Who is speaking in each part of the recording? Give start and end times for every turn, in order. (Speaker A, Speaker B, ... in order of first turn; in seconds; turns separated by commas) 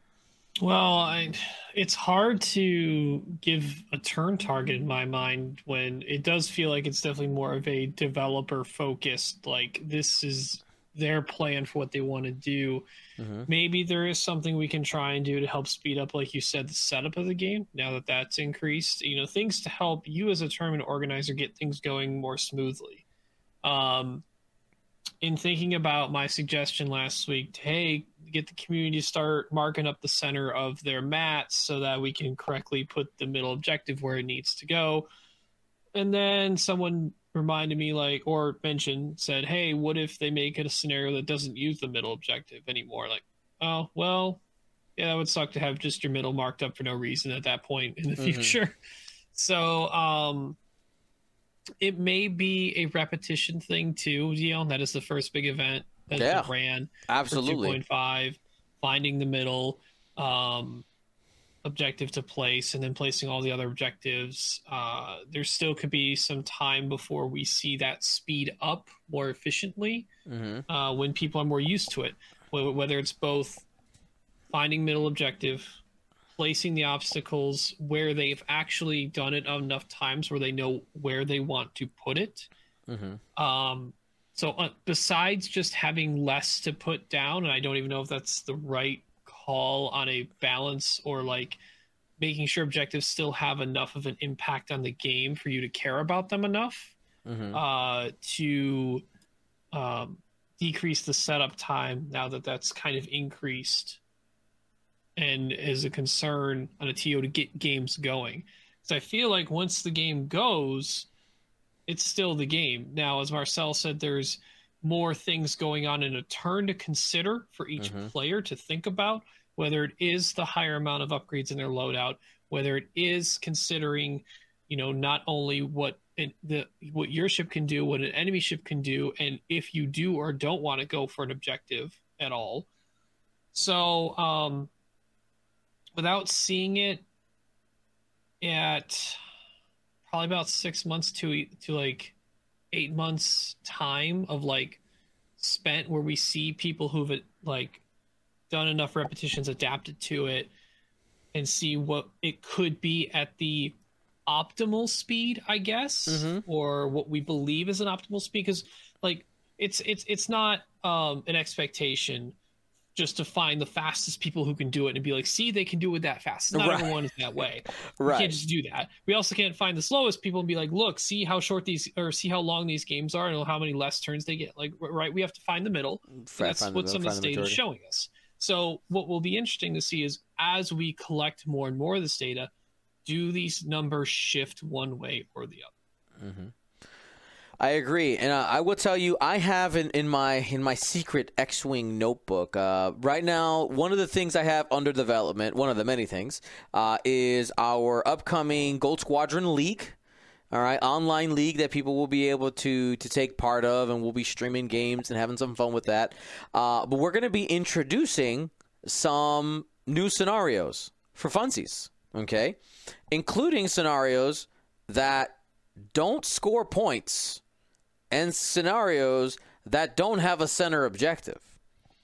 Speaker A: 0.6-12.9, Speaker B: 13.2-13.5, Speaker A: 13.5-23.0, Speaker A: 23.6-24.2, Speaker A: 25.2-35.1, Speaker A: 36.0-44.4, Speaker A: 45.0-48.8, Speaker B: 48.2-48.6, Speaker A: 49.4-50.6, Speaker A: 51.8-60.9, Speaker B: 56.2-56.5, Speaker B: 57.1-57.8, Speaker A: 61.6-70.1, Speaker B: 70.3-70.7, Speaker A: 70.7-73.7, Speaker A: 74.5-75.7, Speaker A: 76.4-82.5, Speaker B: 82.9-83.2, Speaker A: 83.4-91.6, Speaker A: 92.2-97.0, Speaker B: 97.3-97.6, Speaker A: 97.5-99.0, Speaker A: 99.7-104.0, Speaker A: 105.2-111.1, Speaker A: 111.9-132.7, Speaker B: 117.8-118.1, Speaker A: 133.5-134.7, Speaker A: 136.0-137.0, Speaker A: 138.4-139.2, Speaker A: 140.1-142.1, Speaker A: 142.7-144.8, Speaker A: 145.4-147.8, Speaker A: 148.5-150.5, Speaker A: 151.3-153.7, Speaker A: 154.3-162.3, Speaker B: 156.1-156.4, Speaker A: 162.9-182.5, Speaker B: 166.5-167.0, Speaker B: 168.0-168.4, Speaker B: 176.2-177.6, Speaker A: 183.1-185.7, Speaker B: 186.2-186.5, Speaker B: 187.6-200.0, Speaker B: 200.5-212.6, Speaker B: 213.1-215.3, Speaker B: 215.9-217.4, Speaker B: 218.1-221.5